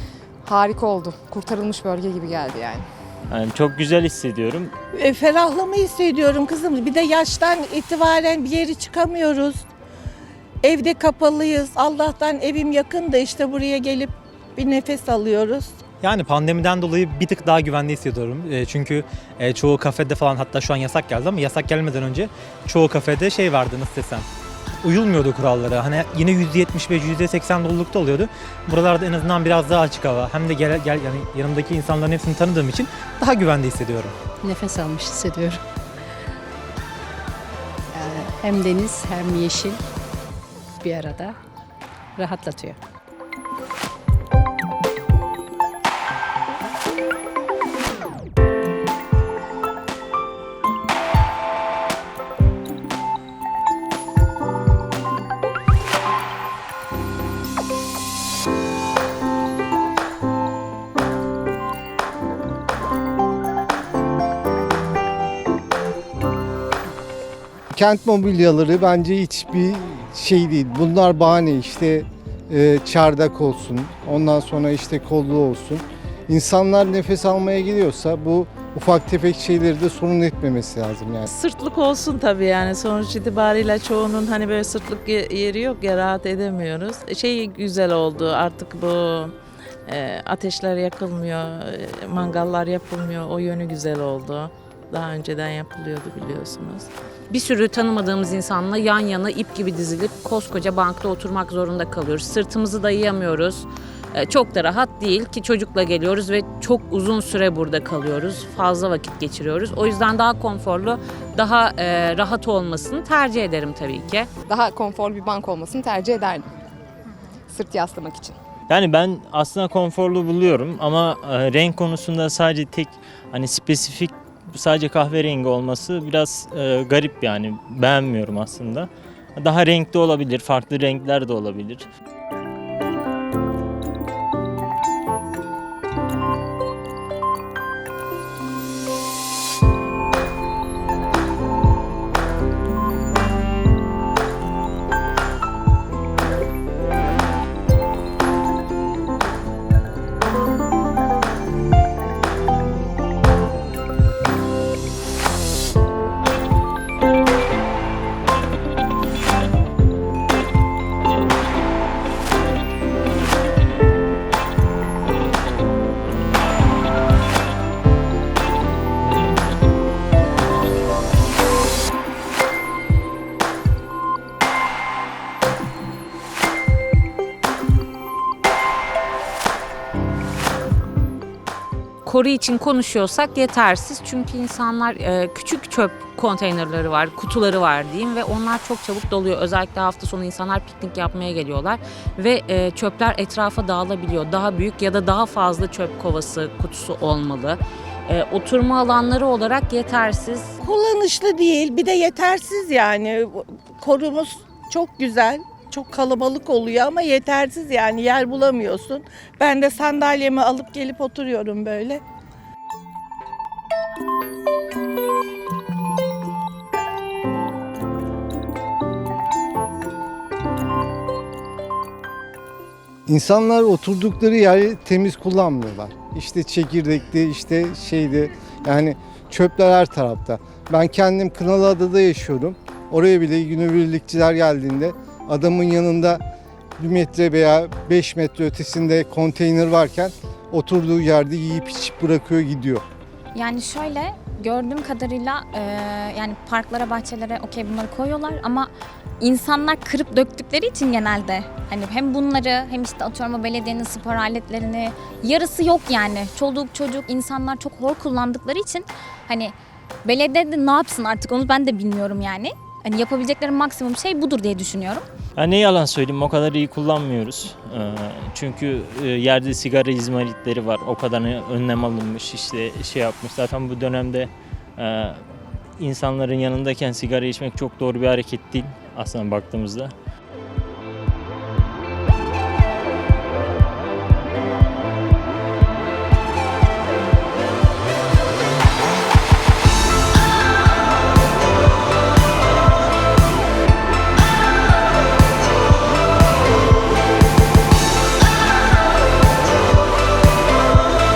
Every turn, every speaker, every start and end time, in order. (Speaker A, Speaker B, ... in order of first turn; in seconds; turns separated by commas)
Speaker A: 0.4-2.9, Speaker B: 3.3-4.7, Speaker C: 4.9-9.6, Speaker C: 10.6-15.8, Speaker D: 16.0-24.2, Speaker D: 24.8-34.1, Speaker E: 34.4-35.6, Speaker E: 37.9-39.8, Speaker E: 40.8-41.4, Speaker E: 42.1-42.8, Speaker F: 67.7-81.3, Speaker G: 81.3-89.3, Speaker G: 89.9-96.9, Speaker H: 97.3-114.3, Speaker A: 114.5-116.4, Speaker A: 117.5-118.3, Speaker B: 118.7-131.9, Speaker H: 182.0-200.6, Speaker C: 200.6-212.0, Speaker F: 223.1-236.2, Speaker F: 236.8-242.8, Speaker I: 243.3-265.1, Speaker B: 265.4-275.2, Speaker B: 275.8-279.9